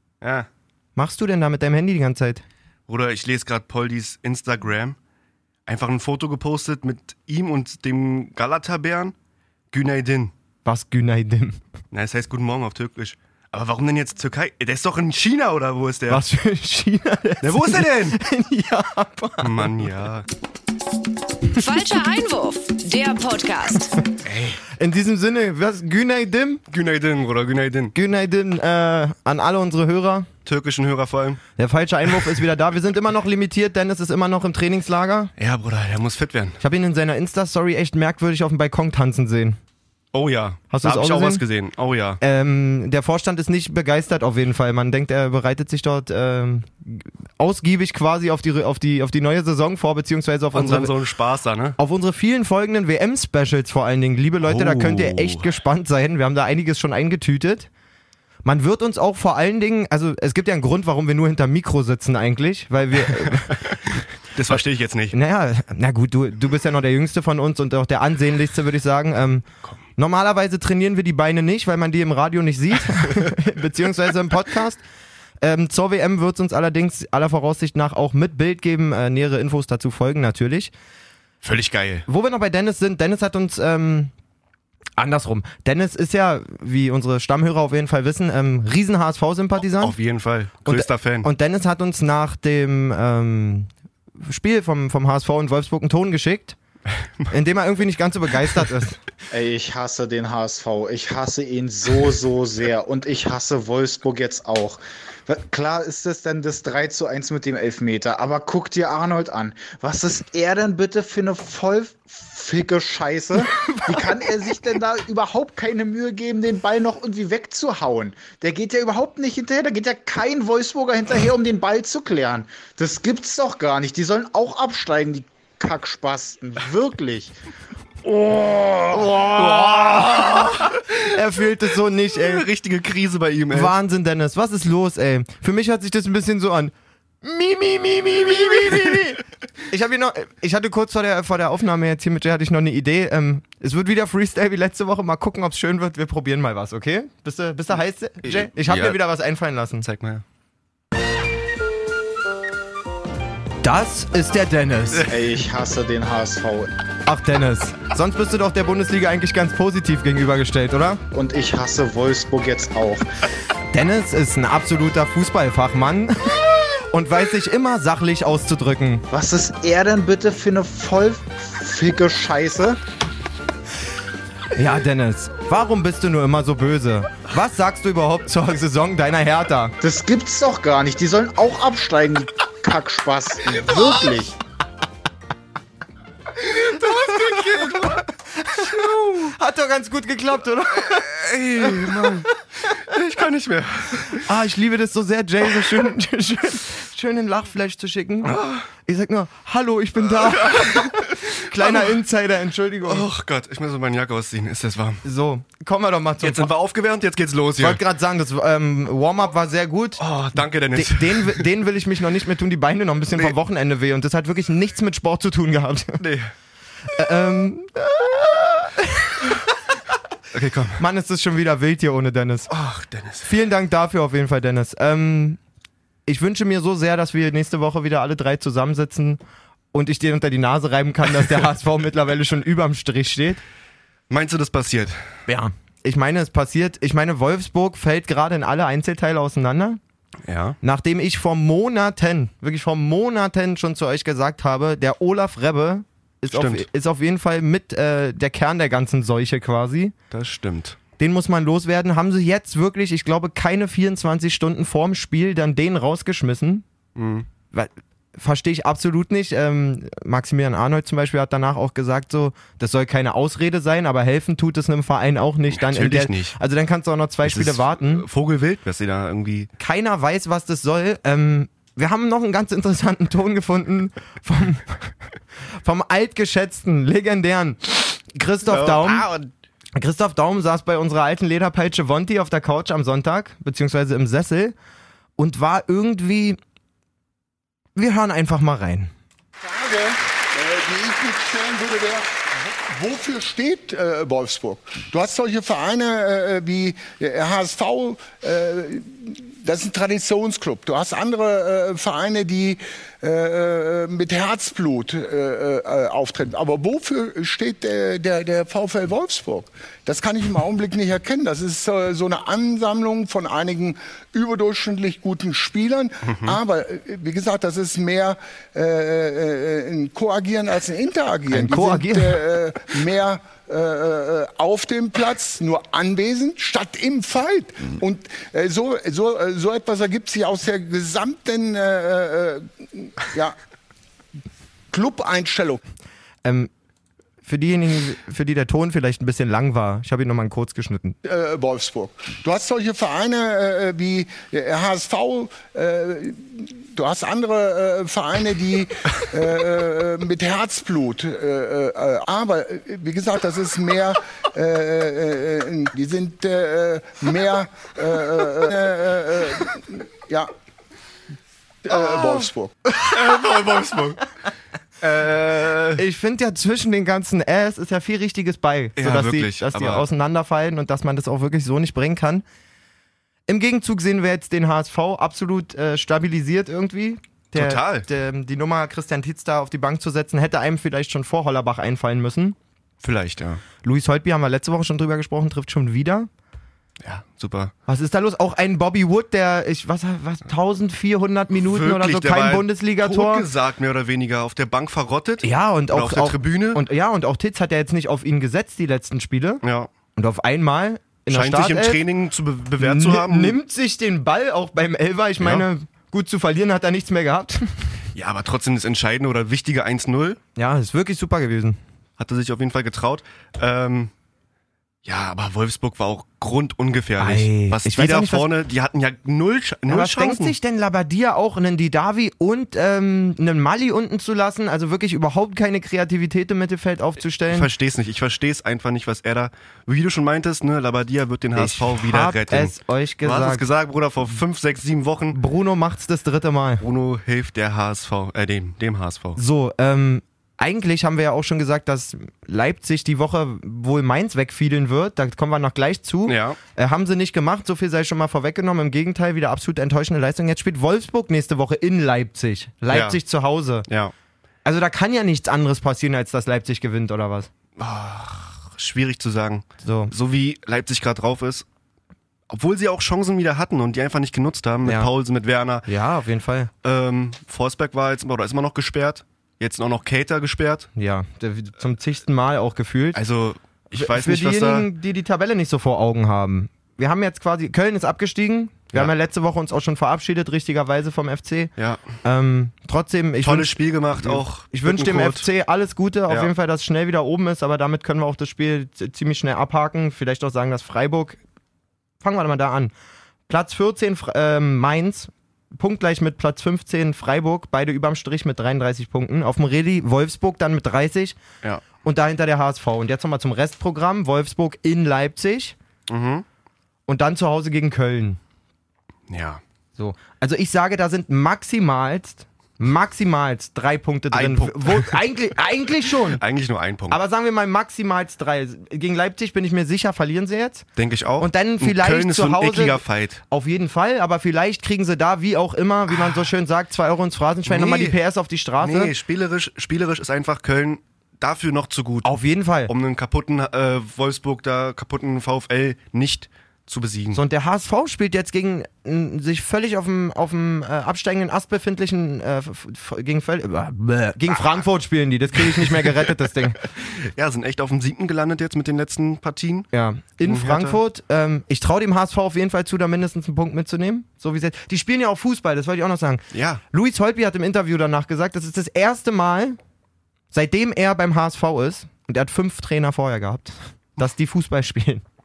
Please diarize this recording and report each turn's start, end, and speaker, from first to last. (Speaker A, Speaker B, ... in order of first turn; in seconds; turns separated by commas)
Speaker A: 0.2-0.5, Speaker B: 0.9-2.4, Speaker A: 2.9-5.0, Speaker A: 5.7-9.1, Speaker A: 9.7-10.3, Speaker B: 10.6-11.6, Speaker A: 11.9-16.2, Speaker B: 16.1-19.9, Speaker A: 17.4-18.2, Speaker A: 19.4-20.3, Speaker C: 21.5-24.0, Speaker A: 24.2-24.6, Speaker B: 24.7-26.6, Speaker A: 26.7-27.9, Speaker B: 27.9-30.3, Speaker A: 30.4-31.4, Speaker B: 31.6-35.3, Speaker A: 35.4-36.6, Speaker B: 36.6-39.6, Speaker A: 40.1-42.2, Speaker B: 40.7-41.4, Speaker B: 42.2-50.9, Speaker A: 50.5-51.8, Speaker B: 51.8-57.7, Speaker A: 54.4-55.5, Speaker B: 58.4-63.6, Speaker A: 64.3-65.2, Speaker B: 65.1-74.8, Speaker B: 75.4-80.7, Speaker A: 81.4-82.0, Speaker B: 82.1-84.1, Speaker B: 85.0-90.0, Speaker A: 89.7-91.3, Speaker B: 90.7-96.6, Speaker B: 97.3-99.0, Speaker D: 99.3-127.3, Speaker B: 128.1-132.4, Speaker A: 129.3-131.2, Speaker A: 132.1-133.7, Speaker B: 133.5-149.8, Speaker A: 148.2-149.0, Speaker A: 149.8-150.2, Speaker B: 153.6-155.1, Speaker D: 155.1-156.7, Speaker B: 157.1-161.0, Speaker D: 161.1-163.1, Speaker B: 163.7-169.1, Speaker D: 169.1-172.8, Speaker B: 174.5-179.8, Speaker D: 179.8-184.4, Speaker A: 186.4-189.3, Speaker B: 187.1-187.8, Speaker B: 188.4-192.3, Speaker A: 190.7-194.3, Speaker B: 194.1-203.0, Speaker A: 198.2-198.6, Speaker A: 200.1-201.9, Speaker A: 202.8-205.0, Speaker B: 205.0-206.5, Speaker A: 206.2-207.8, Speaker B: 207.6-216.0, Speaker A: 210.0-211.4, Speaker A: 216.0-216.3, Speaker B: 216.9-219.4, Speaker A: 220.3-220.8, Speaker B: 220.8-222.5, Speaker A: 222.5-223.3, Speaker B: 223.2-225.4, Speaker B: 226.1-229.2, Speaker B: 229.7-233.4, Speaker A: 234.1-235.0, Speaker B: 235.3-239.8, Speaker A: 240.2-240.6, Speaker B: 240.6-249.9, Speaker A: 246.3-246.7, Speaker A: 250.1-250.8, Speaker B: 251.0-256.6, Speaker A: 256.9-257.3, Speaker B: 257.5-268.1, Speaker A: 265.5-266.4, Speaker A: 267.2-269.5, Speaker B: 269.6-274.9, Speaker B: 275.6-279.1, Speaker A: 278.5-279.3, Speaker B: 279.7-284.5, Speaker B: 285.2-286.4, Speaker B: 287.8-288.9, Speaker E: 289.4-333.4, Speaker B: 321.3-322.2, Speaker E: 334.7-335.6, Speaker B: 336.2-336.5, Speaker B: 337.2-341.0, Speaker E: 341.0-360.3, Speaker E: 361.6-362.5, Speaker B: 361.7-362.2, Speaker A: 362.9-364.0, Speaker A: 364.8-365.8, Speaker B: 365.8-372.2, Speaker A: 368.8-369.8, Speaker B: 373.3-382.4, Speaker A: 377.3-377.9, Speaker A: 382.8-383.4, Speaker B: 383.6-386.1, Speaker A: 386.8-387.5, Speaker B: 387.7-393.2, Speaker A: 391.4-396.6, Speaker B: 395.2-399.4, Speaker A: 399.4-399.7, Speaker B: 399.9-401.8, Speaker A: 401.1-403.4, Speaker B: 402.6-407.7, Speaker A: 405.2-405.4, Speaker A: 407.9-410.2, Speaker B: 410.4-411.6, Speaker A: 412.0-413.9, Speaker A: 414.8-420.3, Speaker B: 417.0-418.3, Speaker B: 419.7-427.5, Speaker A: 427.3-435.2, Speaker B: 431.4-433.4, Speaker B: 435.1-436.6, Speaker A: 436.6-439.2, Speaker B: 439.1-453.7, Speaker A: 446.1-446.4, Speaker A: 452.7-453.0, Speaker A: 453.7-453.9, Speaker B: 454.4-457.3, Speaker A: 457.6-461.4, Speaker B: 459.6-459.9, Speaker A: 462.3-465.7, Speaker B: 464.6-464.9, Speaker B: 465.6-466.5, Speaker A: 466.6-470.7, Speaker B: 470.8-473.0, Speaker A: 472.9-474.7, Speaker B: 473.7-481.5, Speaker B: 482.0-491.2, Speaker A: 483.2-485.2, Speaker B: 492.0-492.7, Speaker B: 493.3-501.2, Speaker B: 501.8-505.5, Speaker A: 505.9-506.2, Speaker B: 506.9-508.2, Speaker A: 509.1-509.4, Speaker B: 509.8-516.2, Speaker A: 514.1-515.0, Speaker A: 515.9-517.0, Speaker B: 516.9-520.6, Speaker A: 520.8-523.2, Speaker B: 521.2-528.9, Speaker A: 527.5-528.0, Speaker A: 528.6-532.1, Speaker B: 532.0-532.7, Speaker A: 532.7-537.2, Speaker B: 537.1-546.6, Speaker A: 545.6-546.1, Speaker A: 546.7-549.7, Speaker B: 549.7-559.6, Speaker A: 550.2-550.8, Speaker A: 556.3-556.6, Speaker B: 560.3-565.0